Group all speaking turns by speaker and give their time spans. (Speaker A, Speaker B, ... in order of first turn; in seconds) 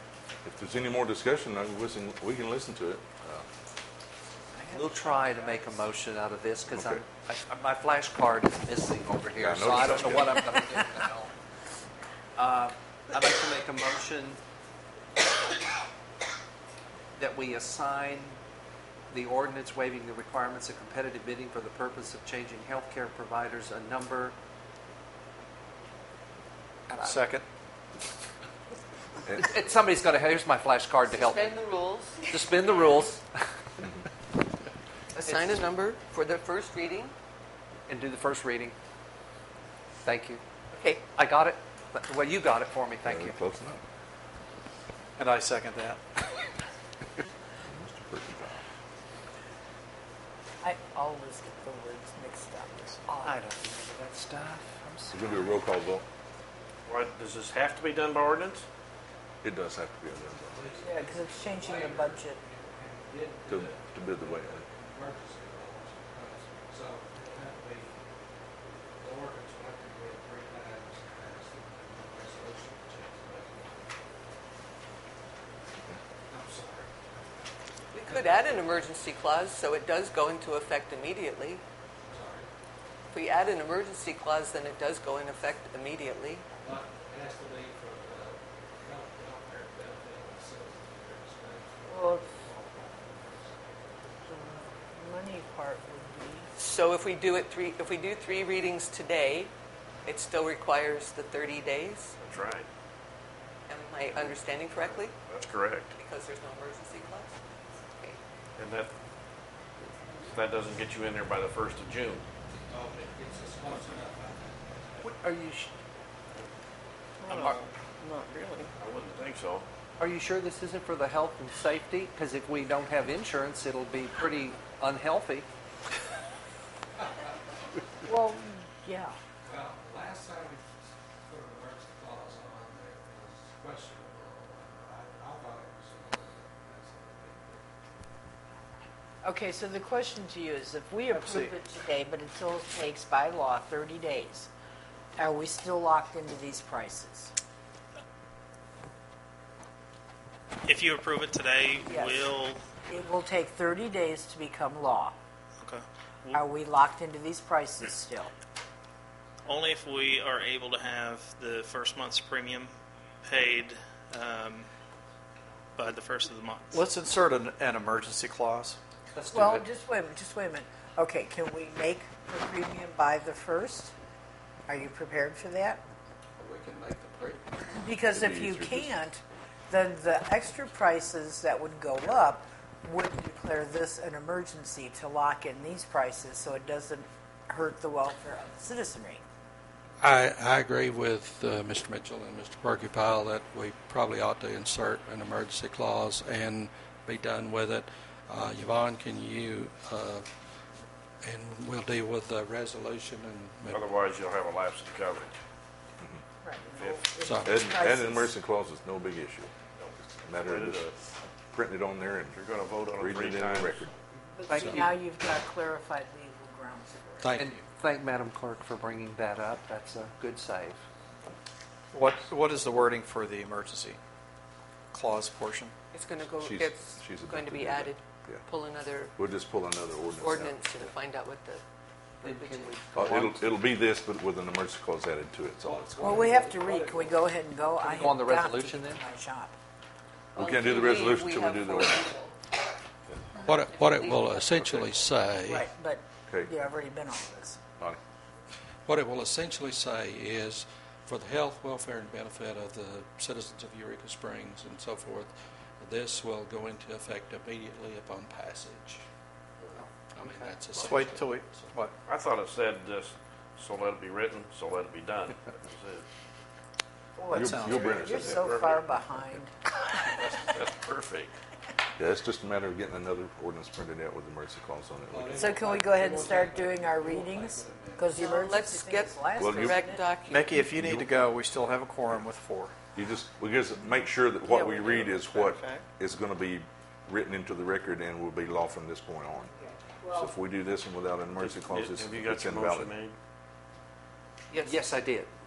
Speaker A: 0.4-3.5, 6.7-7.0, 9.3-10.4, 43.0-43.8, 47.6-48.6, 55.1-56.0, 59.4-60.7, 63.5-64.6, 178.1-178.9, 207.4-209.5, 210.2-210.8, 211.5-212.4, 213.0-213.9, 226.4-228.4, 229.2-230.9, 232.9-236.3, 240.3-242.2, 267.3-268.4, 272.0-275.5, 279.4-279.8, 280.6-281.1, 282.9-289.5, 290.1-292.9
Speaker B: 4.5-5.8, 50.6-53.3, 60.8-62.4, 91.9-92.3, 94.2-96.5, 128.0-129.2, 139.2-144.5, 145.2-147.3, 151.8-152.3, 152.8-155.1, 156.3-158.3, 169.3-173.9, 174.7-175.8, 177.7-189.2, 206.4-208.3, 214.4-217.3, 236.0-239.5, 245.4-247.6, 267.2-269.5, 275.3-280.0, 289.5-290.3
Speaker C: 4.7-11.3, 12.4-14.4, 17.2-18.4, 19.1-24.3, 26.9-27.1, 29.3-31.6, 32.2-33.4, 35.2-35.6, 37.9-38.7, 40.0-40.4, 41.1-43.4, 53.1-55.5, 115.0-115.7, 120.0-125.5, 169.1-169.6, 214.5-214.8, 217.4-220.8, 232.2-233.4, 237.8-239.0, 294.5-295.3
Speaker D: 27.1-27.4, 45.2-46.0, 166.8-168.8, 221.9-224.0, 224.9-225.7, 260.9-261.9, 280.3-282.7
Speaker E: 31.1-32.3, 35.1-37.1, 40.7-41.1, 77.9-81.6, 83.1-86.4, 96.5-99.5, 100.0-102.1, 103.7-105.2, 106.0-107.3, 225.9-229.1, 230.1-231.6, 232.2-232.8, 240.3-242.3, 243.5-244.5, 278.1-280.5
Speaker F: 56.9-58.6, 102.2-102.7, 104.1-105.9, 108.5-108.9, 110.2-112.2, 118.7-119.7, 203.7-205.3, 206.8-207.1, 209.8-210.9, 212.3-213.9, 262.1-266.0, 267.7-268.9, 270.0-271.3, 291.4-293.1
Speaker G: 60.2-68.0, 69.0-74.0, 76.3-78.9, 82.1-82.5, 86.6-94.2, 112.5-115.1, 129.4-137.6, 176.4-177.5, 190.0-200.2, 201.2-203.9, 207.2-207.6, 214.5-214.9, 217.2-217.7, 235.6-237.2, 243.4-245.7, 248.9-259.0, 260.1-261.8, 275.1-278.1
Speaker H: 150.7-152.6, 155.6-156.4, 159.4-162.7, 163.2-164.7, 165.8-166.8